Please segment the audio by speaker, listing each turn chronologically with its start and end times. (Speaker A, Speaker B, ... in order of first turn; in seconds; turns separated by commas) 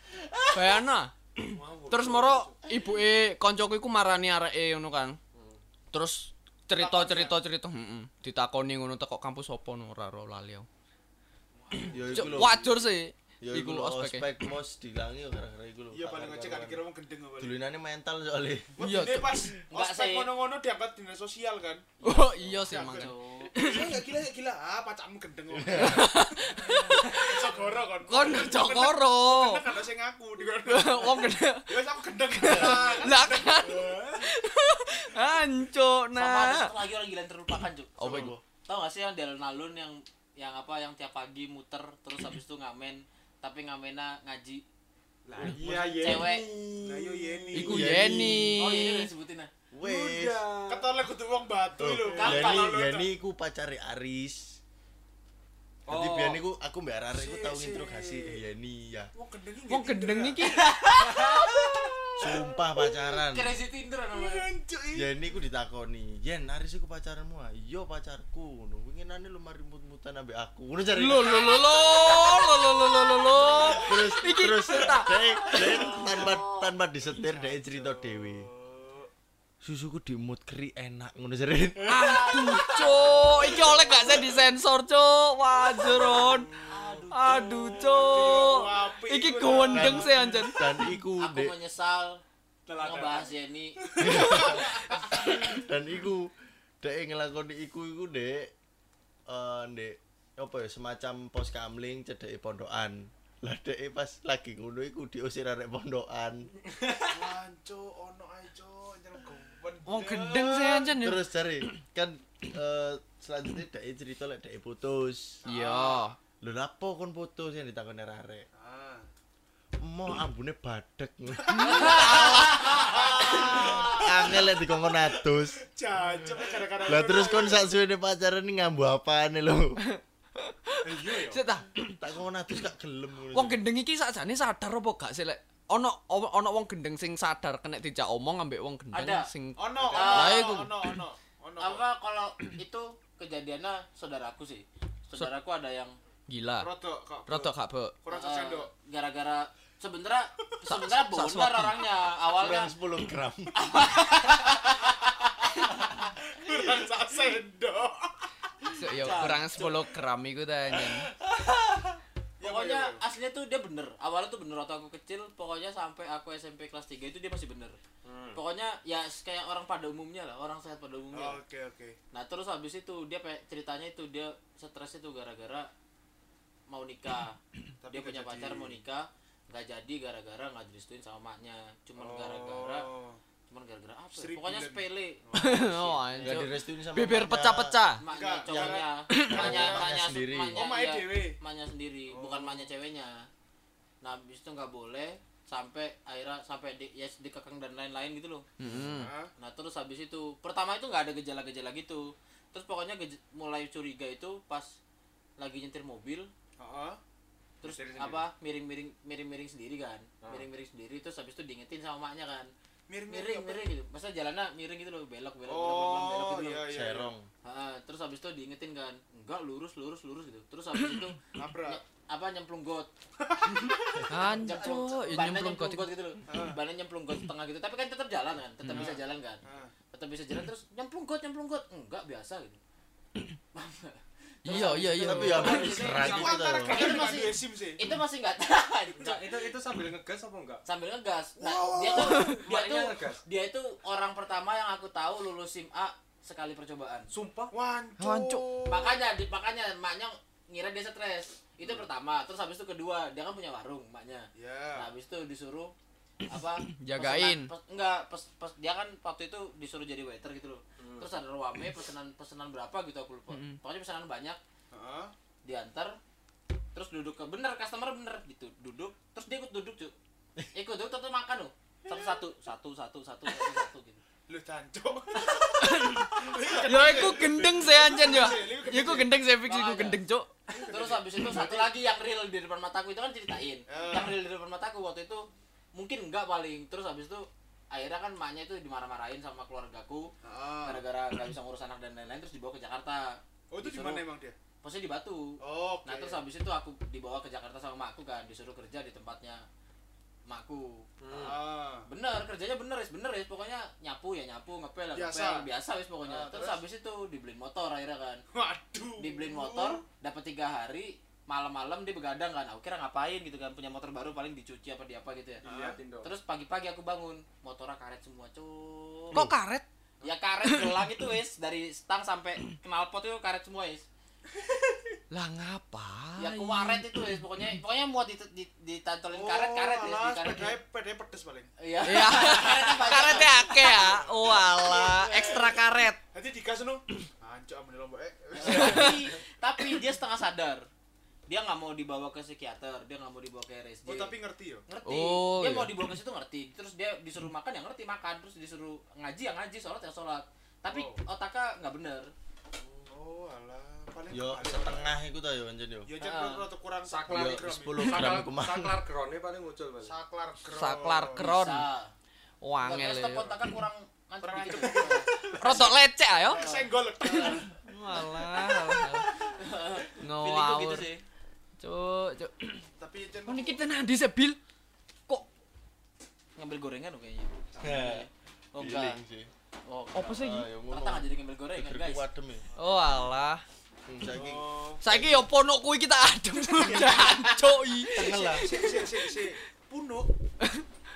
Speaker A: 0.5-5.2, Speaker B: 1.5-2.5, Speaker C: 1.9-2.2, Speaker C: 5.3-5.6, Speaker A: 5.9-10.7, Speaker B: 6.7-7.4, Speaker B: 11.6-12.5, Speaker D: 11.9-12.8, Speaker A: 12.1-14.3, Speaker D: 13.4-16.8, Speaker B: 15.9-17.6, Speaker D: 17.4-18.7, Speaker B: 18.8-22.0, Speaker A: 18.8-19.5, Speaker E: 19.7-20.3, Speaker A: 22.0-24.0, Speaker B: 22.6-34.3, Speaker E: 22.7-23.6, Speaker D: 25.5-26.1, Speaker A: 25.7-27.5, Speaker A: 28.1-29.7, Speaker A: 30.6-36.7, Speaker D: 32.5-32.8, Speaker E: 36.1-44.6, Speaker D: 38.0-38.4, Speaker A: 38.0-38.3, Speaker C: 45.2-47.7, Speaker B: 45.6-46.2, Speaker E: 45.9-46.5, Speaker B: 46.8-47.9, Speaker A: 47.5-49.1, Speaker D: 47.5-48.6, Speaker E: 48.5-49.5, Speaker D: 49.7-50.4, Speaker C: 49.8-51.0, Speaker B: 50.7-53.1, Speaker D: 51.8-54.4, Speaker E: 52.1-52.9, Speaker D: 55.9-59.1, Speaker C: 56.1-56.4, Speaker B: 57.1-58.4, Speaker B: 59.1-60.6, Speaker A: 59.7-60.7, Speaker E: 60.5-61.7, Speaker B: 61.1-62.8, Speaker D: 62.2-63.5, Speaker E: 63.3-64.5, Speaker B: 64.1-65.1, Speaker D: 64.9-71.7, Speaker A: 70.9-75.3, Speaker B: 71.3-76.4, Speaker D: 73.6-78.5, Speaker E: 76.2-76.6, Speaker B: 77.1-79.1, Speaker D: 79.6-82.3, Speaker A: 81.9-86.6, Speaker E: 82.0-83.3, Speaker C: 82.4-82.7, Speaker B: 83.6-84.2, Speaker B: 85.5-90.5, Speaker E: 86.6-87.5, Speaker A: 87.1-90.7, Speaker E: 88.0-88.5, Speaker D: 89.7-91.5, Speaker E: 91.2-92.2, Speaker C: 92.7-93.3, Speaker E: 92.7-94.6, Speaker B: 93.8-95.6, Speaker D: 94.0-98.5, Speaker D: 99.3-106.5, Speaker C: 106.7-107.2, Speaker B: 107.1-111.0, Speaker A: 109.8-111.2, Speaker D: 111.0-115.4, Speaker B: 115.4-116.1, Speaker A: 115.4-116.2, Speaker D: 116.4-118.5, Speaker B: 118.6-119.0, Speaker D: 119.8-125.6, Speaker B: 121.5-127.7, Speaker A: 121.5-122.6, Speaker E: 121.8-124.0, Speaker D: 126.8-129.8, Speaker A: 129.8-132.0, Speaker B: 130.8-131.4, Speaker C: 131.0-131.4, Speaker D: 132.0-133.6, Speaker A: 133.3-141.0, Speaker E: 138.9-139.3, Speaker B: 139.5-141.8, Speaker C: 139.8-140.1, Speaker E: 139.9-140.6, Speaker E: 141.6-145.9, Speaker A: 146.3-146.7, Speaker B: 146.6-148.7, Speaker A: 147.3-147.9, Speaker E: 148.1-152.7, Speaker A: 150.7-151.8, Speaker D: 152.3-153.6, Speaker E: 153.6-155.7, Speaker B: 153.9-154.9, Speaker B: 155.4-158.3, Speaker A: 158.7-161.1, Speaker E: 158.8-159.9, Speaker B: 162.4-163.0, Speaker E: 162.4-167.8, Speaker C: 168.0-168.4, Speaker E: 168.3-171.4, Speaker B: 171.1-172.0, Speaker E: 172.1-175.7, Speaker E: 176.7-177.4, Speaker B: 177.8-178.8, Speaker E: 177.9-182.9, Speaker B: 182.0-183.2, Speaker E: 183.5-186.5, Speaker B: 184.1-185.5, Speaker A: 185.3-188.0, Speaker D: 186.2-187.8, Speaker E: 188.0-193.3, Speaker B: 188.1-189.9, Speaker D: 188.5-190.7, Speaker A: 189.1-189.6, Speaker B: 190.5-191.4, Speaker B: 192.1-192.7, Speaker E: 194.0-198.5, Speaker A: 198.6-199.1, Speaker B: 198.7-199.3, Speaker E: 199.4-204.7, Speaker E: 205.4-206.3, Speaker B: 206.6-207.0, Speaker E: 207.6-212.5, Speaker C: 207.6-208.2, Speaker B: 208.0-208.2, Speaker B: 212.9-213.7, Speaker E: 213.1-216.6, Speaker B: 215.5-217.1, Speaker D: 216.7-217.3, Speaker E: 217.4-222.9, Speaker B: 221.3-221.8, Speaker B: 223.2-225.0, Speaker E: 223.5-229.4, Speaker A: 224.1-225.9, Speaker B: 226.3-226.6, Speaker A: 228.6-229.0, Speaker B: 228.7-229.7, Speaker E: 229.9-232.6, Speaker E: 233.5-239.2, Speaker A: 234.4-235.9, Speaker D: 235.0-237.0, Speaker B: 235.4-237.8, Speaker C: 239.0-240.6, Speaker E: 240.6-247.1, Speaker B: 241.4-242.4, Speaker C: 242.3-243.2, Speaker C: 247.1-247.5, Speaker B: 247.5-249.0, Speaker A: 248.0-248.5, Speaker E: 248.7-255.7, Speaker B: 254.3-254.9, Speaker E: 256.3-264.4, Speaker A: 256.7-257.5, Speaker C: 260.8-261.2, Speaker A: 263.3-263.6, Speaker B: 264.7-265.1, Speaker E: 265.4-266.0, Speaker E: 266.7-269.9, Speaker E: 270.5-274.0, Speaker B: 271.9-272.2, Speaker B: 274.3-279.3, Speaker A: 275.6-280.3, Speaker E: 279.4-280.0, Speaker B: 280.5-281.7, Speaker E: 280.7-290.1, Speaker B: 283.7-284.1, Speaker B: 290.2-290.8, Speaker E: 290.6-294.0, Speaker B: 293.5-294.4, Speaker E: 294.6-295.3, Speaker B: 295.4-296.2, Speaker E: 295.8-299.4, Speaker E: 300.3-300.9, Speaker C: 301.0-301.4, Speaker B: 301.1-301.9, Speaker E: 301.9-308.2, Speaker B: 304.9-305.5, Speaker B: 306.0-306.6, Speaker B: 308.3-309.8, Speaker E: 309.0-315.4, Speaker C: 315.4-316.1, Speaker B: 315.4-315.8, Speaker E: 316.0-319.3, Speaker A: 319.1-319.6, Speaker E: 320.0-323.8, Speaker A: 320.4-320.8, Speaker B: 324.4-324.8, Speaker A: 325.1-326.8, Speaker E: 326.2-330.6, Speaker B: 329.1-331.5, Speaker E: 331.6-334.0, Speaker A: 331.8-336.0, Speaker B: 332.7-335.6, Speaker B: 336.1-339.1, Speaker E: 338.4-340.7, Speaker A: 338.5-338.9, Speaker E: 341.3-344.1, Speaker B: 343.9-344.7, Speaker E: 344.7-352.1, Speaker A: 344.8-345.7, Speaker B: 350.7-351.0, Speaker B: 352.9-354.9, Speaker D: 354.1-355.9, Speaker B: 355.9-358.2, Speaker E: 356.0-356.5, Speaker C: 356.8-359.9, Speaker D: 357.1-358.8, Speaker B: 359.8-361.2, Speaker A: 360.5-361.6, Speaker E: 361.1-361.9, Speaker A: 362.4-363.4, Speaker E: 362.6-365.7, Speaker B: 364.2-368.5, Speaker A: 365.4-366.4, Speaker E: 366.3-367.4, Speaker A: 367.6-369.1, Speaker E: 369.4-371.0, Speaker A: 370.0-370.9, Speaker A: 371.6-372.6, Speaker B: 372.8-373.7, Speaker A: 373.2-374.4, Speaker E: 376.4-379.0, Speaker D: 377.6-379.3, Speaker E: 379.6-382.1, Speaker A: 379.9-380.4, Speaker D: 380.0-382.4, Speaker B: 382.6-383.0, Speaker A: 382.6-383.4, Speaker D: 383.8-385.2, Speaker B: 384.2-384.6, Speaker A: 384.8-389.2, Speaker B: 386.5-387.4, Speaker E: 386.6-387.6, Speaker D: 387.9-388.6, Speaker B: 388.0-390.1